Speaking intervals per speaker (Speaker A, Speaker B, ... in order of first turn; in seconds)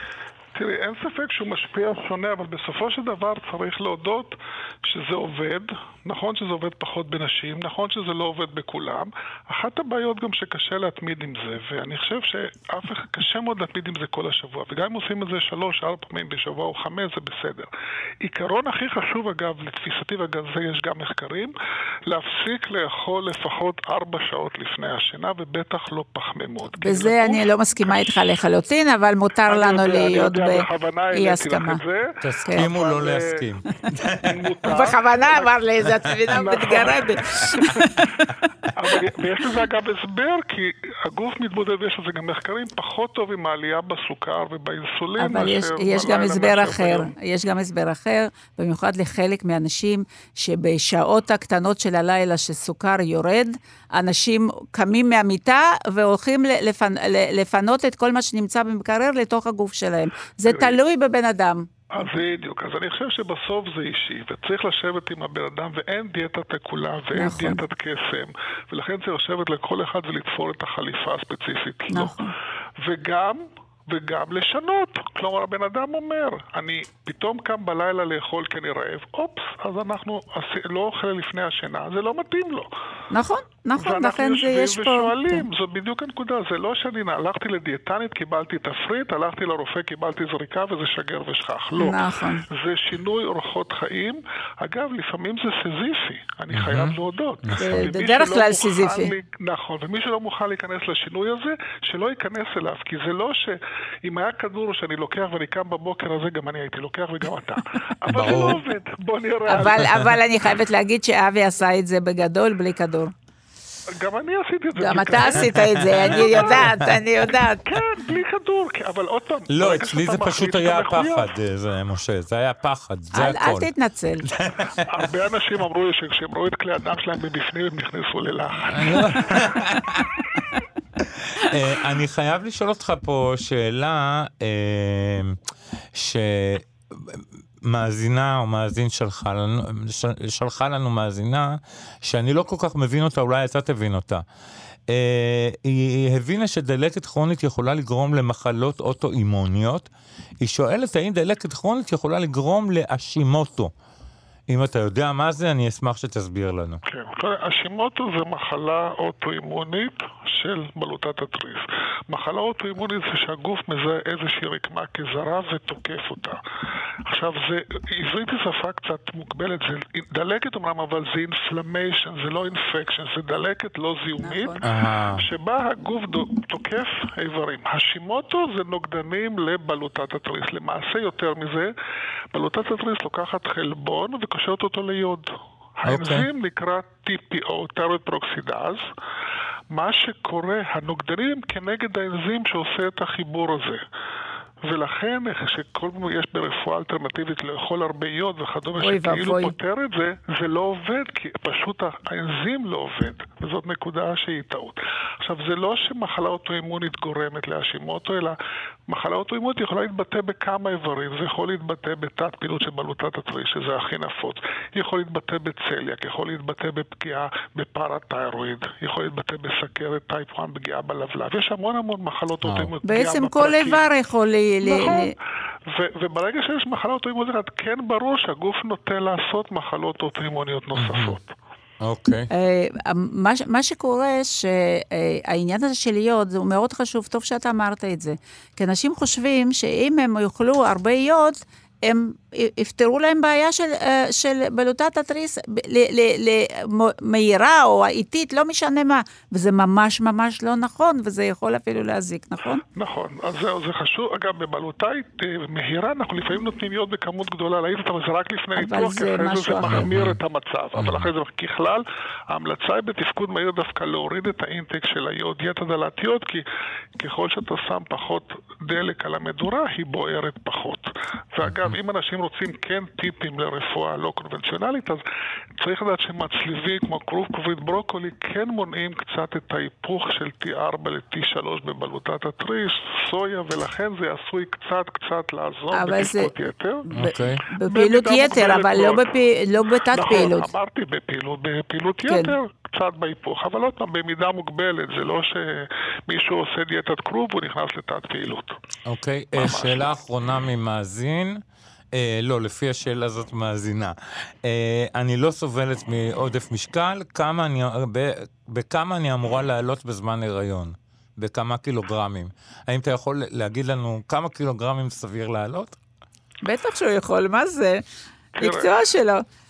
Speaker A: 0.5-17.7, 18.2-21.5, 22.1-27.4, 29.5-33.5, 34.2-35.5, 36.2-37.8, 38.7-47.1, 60.5-60.8, 61.9-72.2, 72.8-82.7, 83.8-109.9, 114.0-116.8, 117.6-121.3, 124.8-129.6, 156.8-166.4, 167.0-181.7, 182.3-188.8, 189.7-193.8, 194.6-208.3, 208.9-223.8, 224.6-225.1, 225.7-231.3, 252.7-266.4, 267.0-275.0, 275.6-286.9, 287.6-289.1, 289.9-298.6, 299.3-299.9, 318.4-318.7
Speaker B: 26.8-31.8, 34.7-38.4, 45.2-61.8, 67.1-67.6, 71.9-72.3, 83.1-85.5, 91.8-92.4, 97.6-99.1, 109.5-113.1, 114.8-117.7, 123.1-124.3, 174.2-174.6, 198.8-199.5, 222.8-225.1, 232.3-252.6, 258.6-259.9, 285.7-286.3, 286.8-290.5, 292.0-292.3, 316.4-317.8, 318.4-319.2
Speaker C: 32.2-34.4, 96.5-97.9, 108.1-108.6, 115.5-116.8, 119.5-123.7, 124.2-125.0, 128.7-130.2, 131.0-135.4, 135.9-144.2, 144.9-149.9, 150.4-153.7, 154.5-156.8, 174.6-175.2, 185.8-186.3, 222.4-222.7, 230.8-231.2, 231.8-232.3, 259.7-260.2, 260.8-261.1, 271.4-271.8, 286.9-287.4, 298.9-301.4, 301.9-315.8